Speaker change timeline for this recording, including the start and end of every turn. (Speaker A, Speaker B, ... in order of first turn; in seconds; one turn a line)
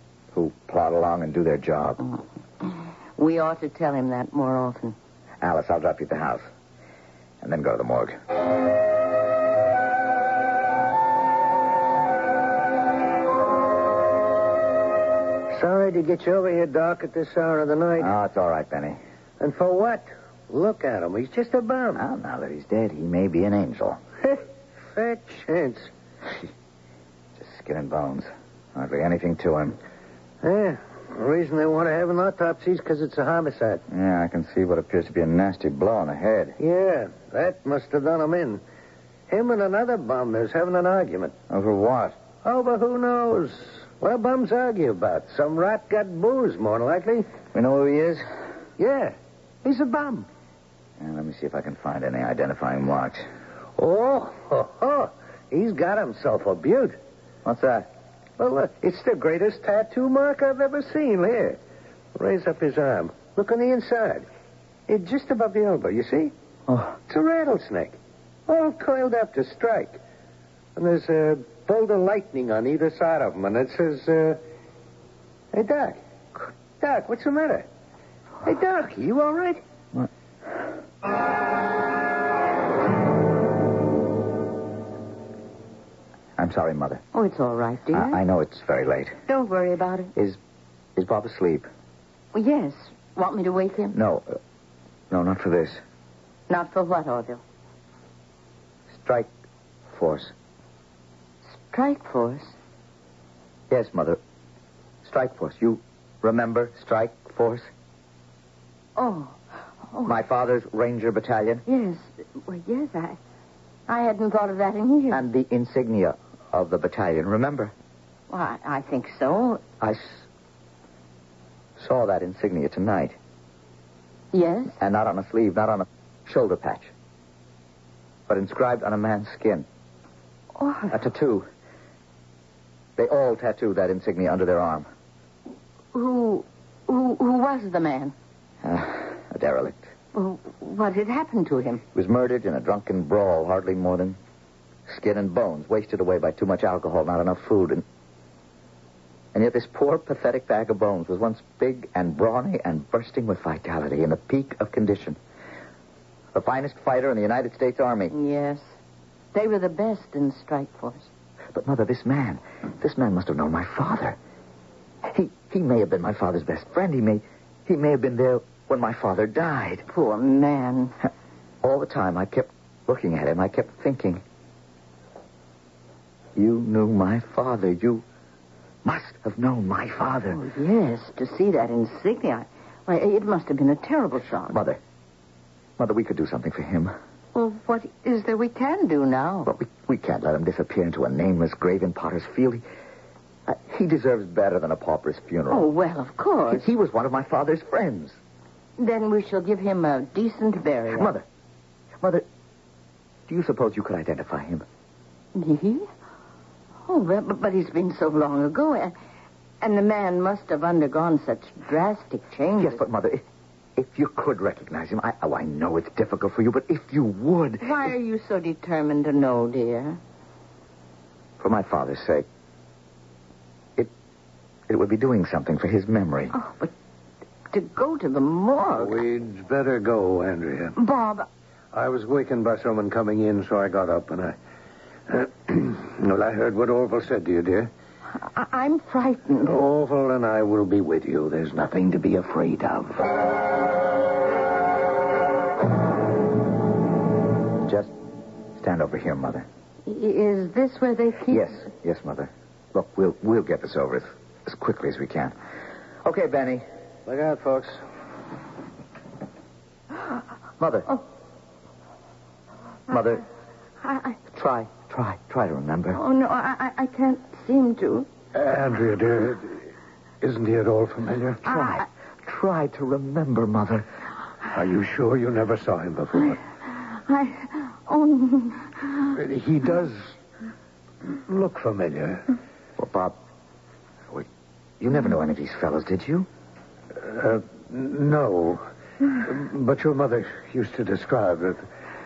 Speaker A: 0.3-2.0
Speaker B: 3.1-5.0
Speaker A: 5.4-6.4
Speaker A: 7.4-8.2
Speaker C: 15.5-18.1
Speaker A: 18.0-19.0
Speaker C: 19.4-22.0
Speaker A: 21.9-24.0
Speaker C: 24.9-25.9
Speaker A: 27.4-29.8
Speaker C: 30.4-33.8
Speaker A: 33.9-36.6
Speaker C: 36.6-38.6
Speaker C: 39.3-41.4
Speaker A: 41.5-42.2
Speaker C: 42.4-47.3
Speaker A: 47.5-48.2
Speaker C: 48.8-50.3
Speaker A: 51.0-53.2
Speaker C: 53.8-57.0
Speaker A: 57.4-57.9
Speaker C: 58.4-61.6
Speaker C: 62.1-64.2
Speaker C: 64.9-66.3
Speaker A: 66.7-67.0
Speaker C: 67.1-70.0
Speaker C: 70.8-74.4
Speaker C: 75.5-76.0
Speaker C: 76.8-77.7
Speaker C: 78.4-79.6
Speaker A: 86.4-87.0
Speaker B: 87.1-88.2
Speaker A: 87.9-89.2
Speaker B: 89.3-90.1
Speaker A: 91.0-91.7
Speaker B: 92.3-94.0
Speaker A: 93.9-94.3
Speaker A: 95.1-95.8
Speaker B: 96.5-97.4
Speaker A: 99.0-99.3
Speaker A: 99.9-100.3
Speaker B: 101.6-102.5
Speaker A: 103.7-104.2
Speaker A: 105.0-107.7
Speaker B: 109.0-110.2
Speaker A: 110.0-111.6
Speaker B: 111.7-113.2
Speaker B: 113.9-115.2
Speaker A: 115.1-117.7
Speaker B: 118.3-119.6
Speaker A: 119.8-120.2
Speaker A: 121.8-123.2
Speaker B: 124.3-124.8
Speaker A: 124.8-126.9
Speaker A: 128.3-129.7
Speaker B: 130.6-130.9
Speaker A: 130.9-131.5
Speaker A: 133.0-134.9
Speaker B: 135.9-138.1
Speaker A: 138.6-139.9
Speaker B: 140.1-141.8
Speaker A: 141.9-144.2
Speaker A: 144.9-147.8
Speaker A: 149.3-155.2
Speaker A: 156.3-158.1
Speaker B: 158.1-158.6
Speaker B: 159.3-161.1
Speaker A: 161.5-164.2
Speaker A: 165.0-169.8
Speaker B: 169.9-170.9
Speaker A: 171.6-174.2
Speaker A: 176.3-178.0
Speaker A: 178.8-180.4
Speaker B: 180.3-184.6
Speaker A: 184.5-184.8
Speaker A: 185.8-186.9
Speaker B: 187.3-189.5
Speaker A: 189.4-192.6
Speaker A: 193.5-195.7
Speaker B: 195.5-196.7
Speaker A: 196.5-198.2
Speaker B: 198.8-201.1
Speaker A: 200.9-201.2
Speaker A: 203.3-204.6
Speaker B: 205.3-205.9
Speaker B: 206.8-208.9
Speaker B: 209.6-212.8
Speaker A: 212.6-213.2
Speaker A: 213.8-217.9
Speaker B: 217.6-220.0
Speaker A: 221.4-222.2
Speaker A: 224.7-226.3
Speaker B: 226.3-226.7
Speaker B: 227.5-229.0
Speaker C: 228.8-230.8
Speaker B: 230.8-231.3
Speaker C: 231.7-234.4
Speaker C: 235.1-237.7
Speaker B: 238.1-239.6
Speaker C: 239.4-243.1
Speaker A: 247.6-247.9
Speaker A: 248.6-249.4
Speaker B: 249.8-251.5
Speaker A: 251.3-255.3
Speaker A: 256.0-256.6
Speaker C: 257.1-257.8
Speaker A: 260.6-260.9
Speaker A: 262.9-263.2
Speaker B: 263.8-264.2
Speaker A: 264.3-266.0
Speaker B: 265.9-268.1
Speaker C: 268.3-269.6
Speaker C: 270.2-271.4
Speaker A: 271.4-273.9
Speaker C: 274.5-276.4
Speaker B: 276.7-279.0
Speaker C: 279.1-280.1
Speaker C: 281.2-282.3
Speaker A: 282.8-283.2
Speaker A: 284.8-286.3
Speaker C: 287.0-288.6
Speaker C: 289.2-291.6